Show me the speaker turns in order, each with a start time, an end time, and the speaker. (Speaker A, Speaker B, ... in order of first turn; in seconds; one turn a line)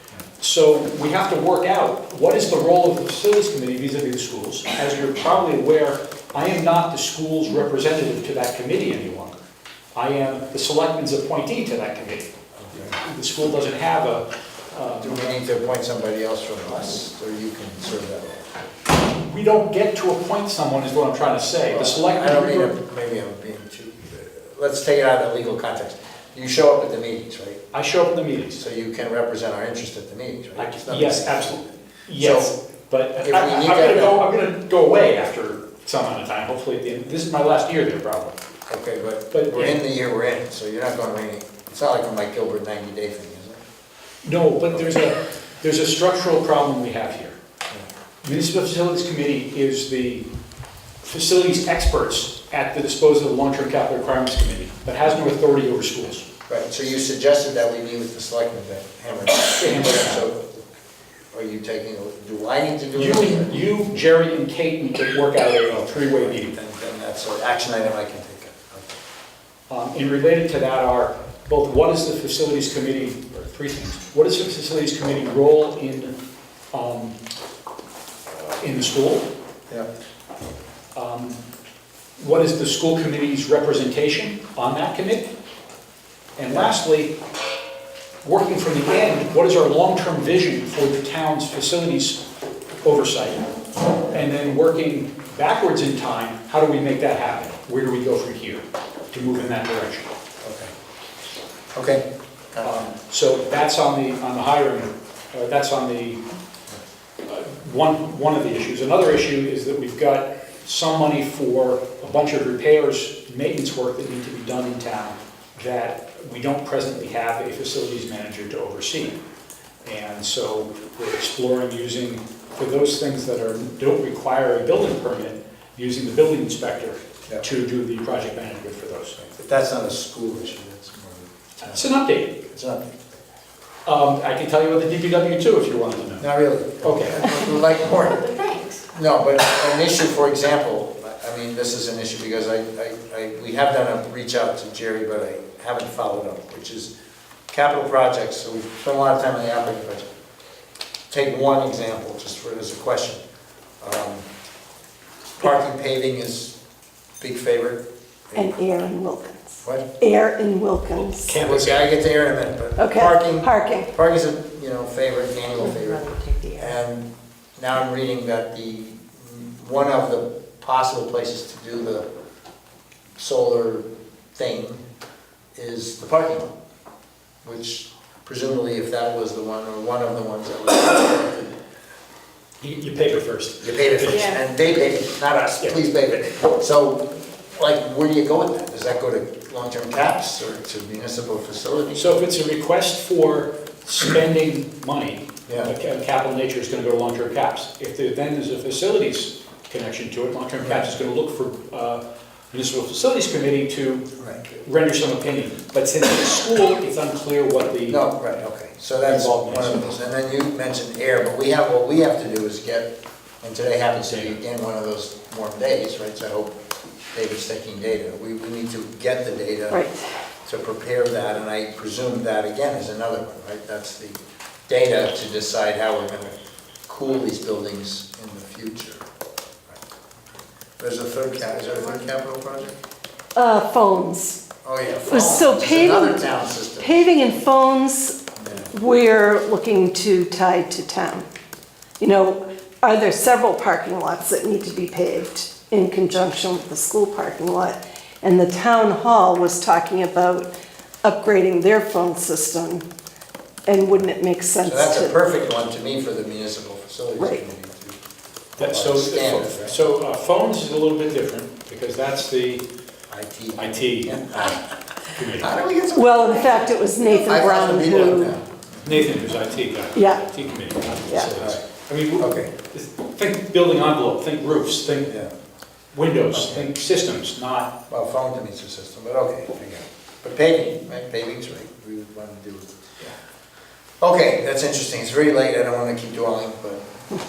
Speaker A: 0.4-9.4
Speaker A: 9.9-12.3
Speaker B: 12.6-12.9
Speaker A: 12.9-15.3
Speaker B: 15.0-18.5
Speaker A: 19.2-22.7
Speaker B: 21.7-27.6
Speaker A: 27.7-28.6
Speaker B: 28.6-32.5
Speaker A: 30.6-38.4
Speaker B: 33.2-34.2
Speaker B: 38.7-43.6
Speaker A: 39.3-39.8
Speaker A: 44.2-47.4
Speaker A: 48.2-50.2
Speaker A: 51.0-56.2
Speaker B: 56.5-60.6
Speaker A: 59.5-60.2
Speaker B: 61.3-63.5
Speaker A: 62.9-66.5
Speaker B: 65.7-69.0
Speaker A: 69.7-76.1
Speaker A: 76.7-77.2
Speaker A: 78.4-79.3
Speaker A: 80.9-81.4
Speaker A: 82.2-85.3
Speaker A: 86.4-87.1
Speaker A: 88.2-92.2
Speaker A: 92.8-93.5
Speaker A: 94.0-100.1
Speaker B: 100.4-100.7
Speaker B: 101.7-102.8
Speaker A: 102.6-106.2
Speaker A: 107.2-119.2
Speaker A: 119.8-129.2
Speaker B: 129.2-131.9
Speaker A: 131.6-132.4
Speaker B: 132.5-132.9
Speaker A: 133.8-136.3
Speaker B: 136.2-138.3
Speaker A: 136.8-137.3
Speaker C: 138.2-138.8
Speaker B: 138.9-146.9
Speaker B: 147.5-150.1
Speaker B: 151.1-153.2
Speaker B: 153.8-154.2
Speaker B: 155.4-156.6
Speaker B: 157.2-158.5
Speaker D: 158.3-161.3
Speaker A: 160.9-161.9
Speaker B: 161.3-172.0
Speaker D: 162.8-163.9
Speaker C: 165.7-166.8
Speaker B: 173.2-174.8
Speaker B: 175.6-176.5
Speaker B: 177.4-181.5
Speaker A: 182.6-184.4
Speaker B: 183.6-192.2
Speaker A: 191.9-208.0
Speaker B: 195.5-195.7
Speaker B: 200.6-200.9
Speaker B: 207.9-216.5
Speaker A: 209.0-209.9
Speaker A: 214.0-214.3
Speaker B: 217.1-219.8
Speaker D: 219.7-220.0
Speaker B: 220.4-226.3
Speaker B: 226.9-229.0
Speaker B: 230.8-232.8
Speaker D: 233.3-234.4
Speaker B: 234.6-237.1
Speaker D: 235.1-236.2
Speaker D: 236.8-238.2
Speaker B: 238.3-238.7
Speaker D: 238.7-241.3
Speaker D: 242.0-252.8
Speaker D: 253.7-255.2
Speaker B: 254.6-258.0
Speaker B: 258.6-259.8
Speaker A: 258.6-262.6
Speaker B: 263.1-266.6
Speaker A: 263.6-264.2
Speaker A: 265.1-265.5
Speaker D: 265.9-268.3
Speaker C: 266.6-267.4
Speaker B: 267.2-268.8
Speaker A: 268.8-275.2
Speaker D: 269.9-270.2
Speaker B: 272.2-272.5
Speaker B: 275.1-275.3
Speaker A: 275.9-277.7
Speaker B: 276.3-276.7
Speaker B: 277.9-282.7
Speaker B: 284.0-286.9